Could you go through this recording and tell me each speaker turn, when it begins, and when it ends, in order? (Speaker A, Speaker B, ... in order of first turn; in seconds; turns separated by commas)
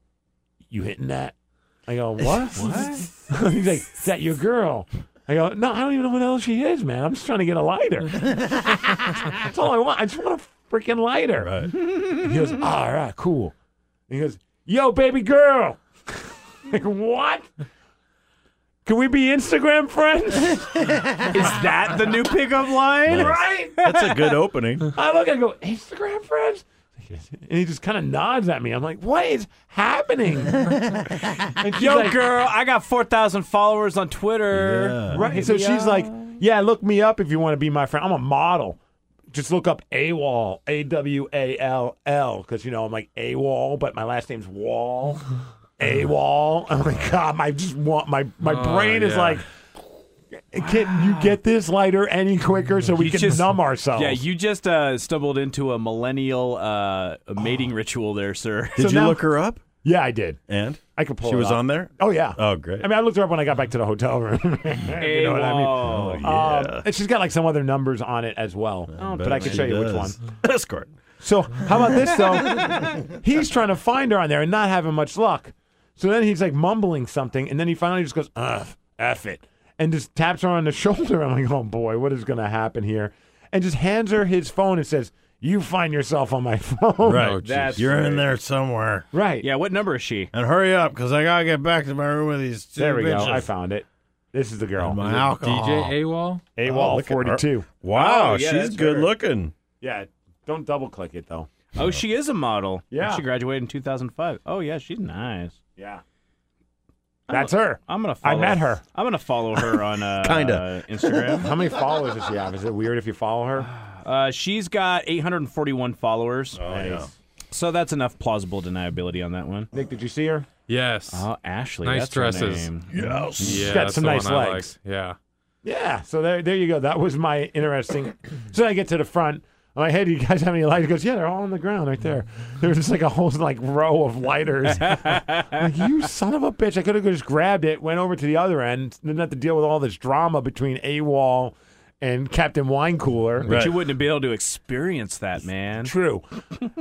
Speaker A: 0.7-1.3, Speaker A: 1.9-8.3, Speaker B: 2.5-3.0, Speaker A: 9.3-13.5, Speaker C: 11.4-11.7, Speaker A: 14.1-17.5, Speaker A: 18.9-20.8, Speaker B: 21.3-24.4, Speaker C: 23.1-24.9, Speaker A: 23.2-23.7, Speaker A: 24.9-30.7, Speaker A: 31.6-32.2, Speaker B: 31.8-36.3, Speaker C: 34.5-35.3, Speaker A: 35.1-38.8, Speaker A: 39.3-45.2, Speaker A: 45.8-49.5, Speaker D: 48.4-49.4, Speaker A: 50.5-54.2, Speaker B: 50.6-51.4, Speaker B: 53.0-58.8, Speaker C: 58.8-59.6, Speaker A: 58.8-59.2, Speaker A: 59.8-60.4, Speaker C: 60.5-62.9, Speaker A: 61.0-70.2, Speaker B: 65.0-66.2, Speaker C: 65.8-66.9, Speaker C: 68.9-70.9, Speaker B: 69.0-69.7, Speaker A: 71.2-87.3, Speaker C: 71.7-72.8, Speaker C: 87.0-89.1, Speaker D: 87.2-87.8, Speaker B: 87.4-88.2, Speaker A: 89.1-89.5, Speaker B: 89.4-90.3, Speaker C: 90.3-93.5, Speaker A: 92.8-95.2, Speaker C: 94.8-96.0, Speaker D: 95.0-96.4, Speaker A: 96.6-97.7, Speaker C: 96.6-99.5, Speaker B: 97.9-99.1, Speaker A: 99.8-101.5, Speaker B: 101.8-105.6, Speaker A: 102.9-103.2, Speaker A: 105.8-106.0, Speaker B: 107.3-111.5, Speaker A: 107.3-108.8, Speaker C: 110.2-111.4, Speaker A: 111.4-113.7, Speaker B: 113.7-119.7, Speaker C: 116.5-117.1, Speaker A: 119.7-120.5, Speaker D: 120.7-121.3, Speaker B: 121.1-122.9, Speaker D: 121.8-122.7, Speaker C: 122.9-123.7, Speaker D: 123.4-125.2, Speaker A: 123.5-124.7, Speaker A: 125.6-143.5, Speaker B: 134.9-135.5, Speaker C: 143.4-143.8, Speaker B: 143.5-145.9, Speaker A: 145.8-146.2